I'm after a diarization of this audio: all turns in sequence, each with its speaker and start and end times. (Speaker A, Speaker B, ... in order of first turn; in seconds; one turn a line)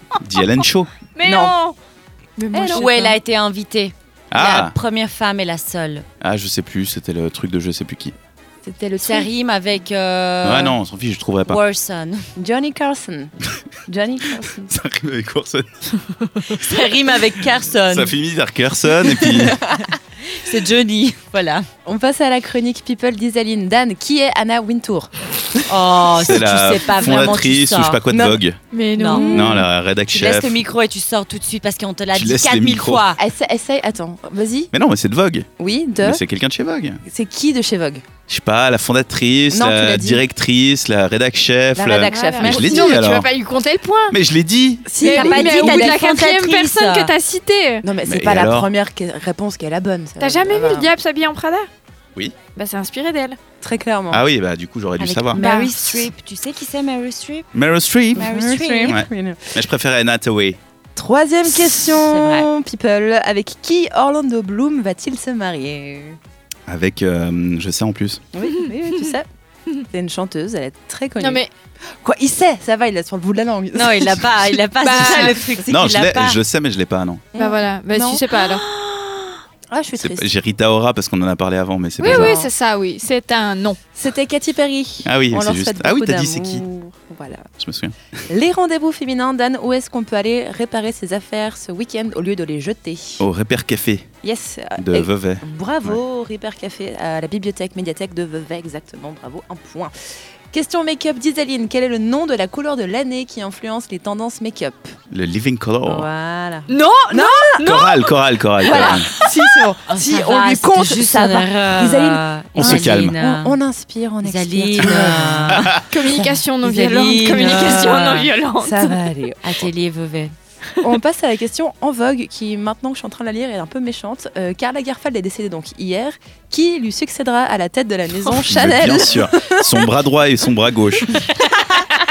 Speaker A: 0.2-0.9
Speaker B: 1.1-1.8
Speaker C: 1.2-1.6
Speaker B: 2.4-3.2
Speaker C: 2.5-2.9
Speaker D: 2.7-6.0
Speaker A: 4.3-4.7
Speaker A: 6.2-8.1
Speaker C: 8.6-9.3
Speaker D: 9.0-10.8
Speaker A: 10.4-11.6
Speaker D: 11.4-12.2
Speaker C: 12.3-13.3
Speaker C: 13.9-14.7
Speaker A: 14.7-15.9
Speaker D: 16.5-18.1
Speaker A: 17.9-19.6
Speaker C: 19.1-19.9
Speaker D: 20.3-21.7
Speaker C: 21.8-26.4
Speaker D: 25.7-28.0
Speaker A: 26.2-28.6
Speaker C: 26.9-27.4
Speaker C: 28.1-28.4
Speaker B: 28.7-29.6
Speaker D: 29.0-29.3
Speaker C: 29.1-29.6
Speaker A: 29.3-30.6
Speaker D: 30.1-33.2
Speaker A: 32.1-33.1
Speaker C: 33.2-34.7
Speaker A: 34.7-35.5
Speaker C: 35.6-36.2
Speaker A: 36.0-37.0
Speaker C: 37.0-38.0
Speaker A: 38.3-43.3
Speaker C: 39.5-40.2
Speaker C: 41.7-42.9
Speaker B: 42.1-44.2
Speaker A: 44.1-44.9
Speaker C: 44.9-46.0
Speaker B: 45.0-47.9
Speaker D: 45.0-47.1
Speaker C: 47.8-50.9
Speaker A: 48.0-48.7
Speaker B: 50.2-51.7
Speaker B: 52.5-53.4
Speaker C: 53.6-54.2
Speaker A: 54.1-55.4
Speaker D: 55.0-57.5
Speaker B: 55.3-56.1
Speaker A: 57.5-58.3
Speaker C: 58.1-59.5
Speaker D: 58.2-59.0
Speaker A: 58.9-60.6
Speaker C: 60.9-66.2
Speaker D: 61.7-62.5
Speaker A: 66.7-68.2
Speaker C: 68.3-69.2
Speaker B: 68.6-69.1
Speaker C: 69.9-71.4
Speaker B: 71.2-71.5
Speaker C: 72.0-74.6
Speaker D: 73.7-76.4
Speaker B: 74.8-75.5
Speaker A: 75.0-77.2
Speaker C: 77.3-78.4
Speaker B: 77.4-78.7
Speaker C: 79.7-80.3
Speaker A: 80.0-82.5
Speaker B: 82.0-83.8
Speaker C: 82.0-82.4
Speaker C: 83.9-87.5
Speaker A: 85.0-86.6
Speaker A: 87.6-87.9
Speaker C: 88.3-93.2
Speaker A: 93.2-94.1
Speaker C: 94.2-99.9
Speaker A: 94.8-96.0
Speaker C: 100.5-104.9
Speaker A: 105.1-106.1
Speaker C: 105.8-107.6
Speaker B: 106.7-108.0
Speaker A: 107.6-109.1
Speaker C: 108.6-116.4
Speaker D: 108.7-109.0
Speaker D: 109.8-113.6
Speaker A: 112.6-113.2
Speaker D: 114.2-115.8
Speaker A: 115.5-115.8
Speaker B: 115.9-119.0
Speaker D: 116.6-118.3
Speaker C: 118.6-119.7
Speaker D: 119.4-120.3
Speaker C: 120.8-129.6
Speaker A: 128.3-131.2
Speaker D: 131.2-131.8